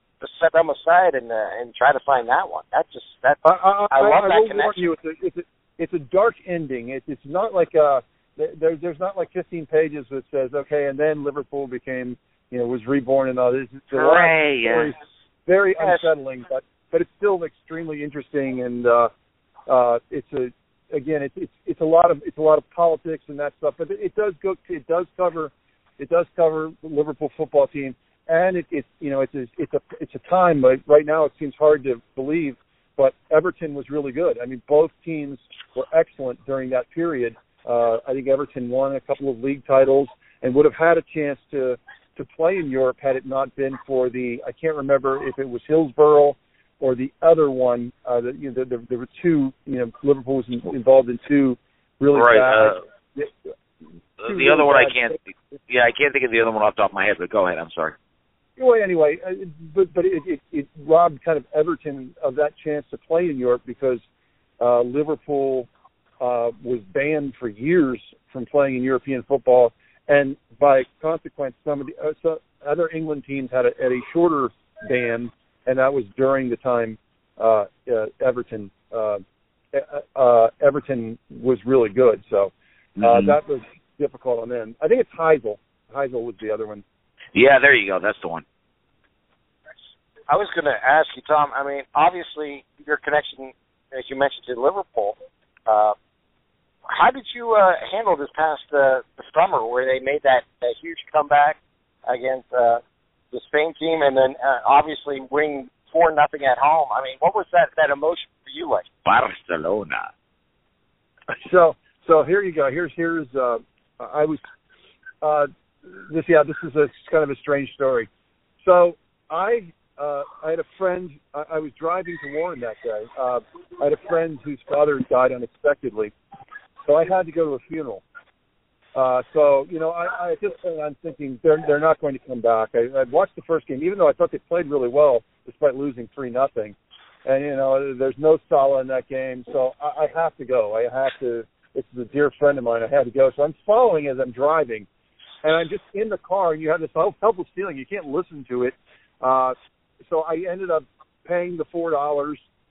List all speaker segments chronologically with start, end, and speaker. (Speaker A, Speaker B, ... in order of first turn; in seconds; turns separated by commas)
Speaker A: 0.2-4.8, Speaker B: 3.4-19.1, Speaker C: 13.9-14.9, Speaker B: 19.7-53.3, Speaker C: 52.1-52.8, Speaker C: 54.2-58.0, Speaker B: 54.2-55.1, Speaker B: 58.6-64.0, Speaker B: 64.6-65.7, Speaker B: 66.2-86.8, Speaker C: 83.0-83.3, Speaker C: 87.3-88.4, Speaker A: 90.3-95.9, Speaker A: 96.9-102.8, Speaker A: 103.3-108.8, Speaker C: 109.0-110.1, Speaker B: 111.3-114.4, Speaker B: 115.2-118.1, Speaker B: 118.6-126.1, Speaker B: 126.8-128.0, Speaker B: 128.9-144.9, Speaker B: 145.4-149.6, Speaker B: 150.1-152.4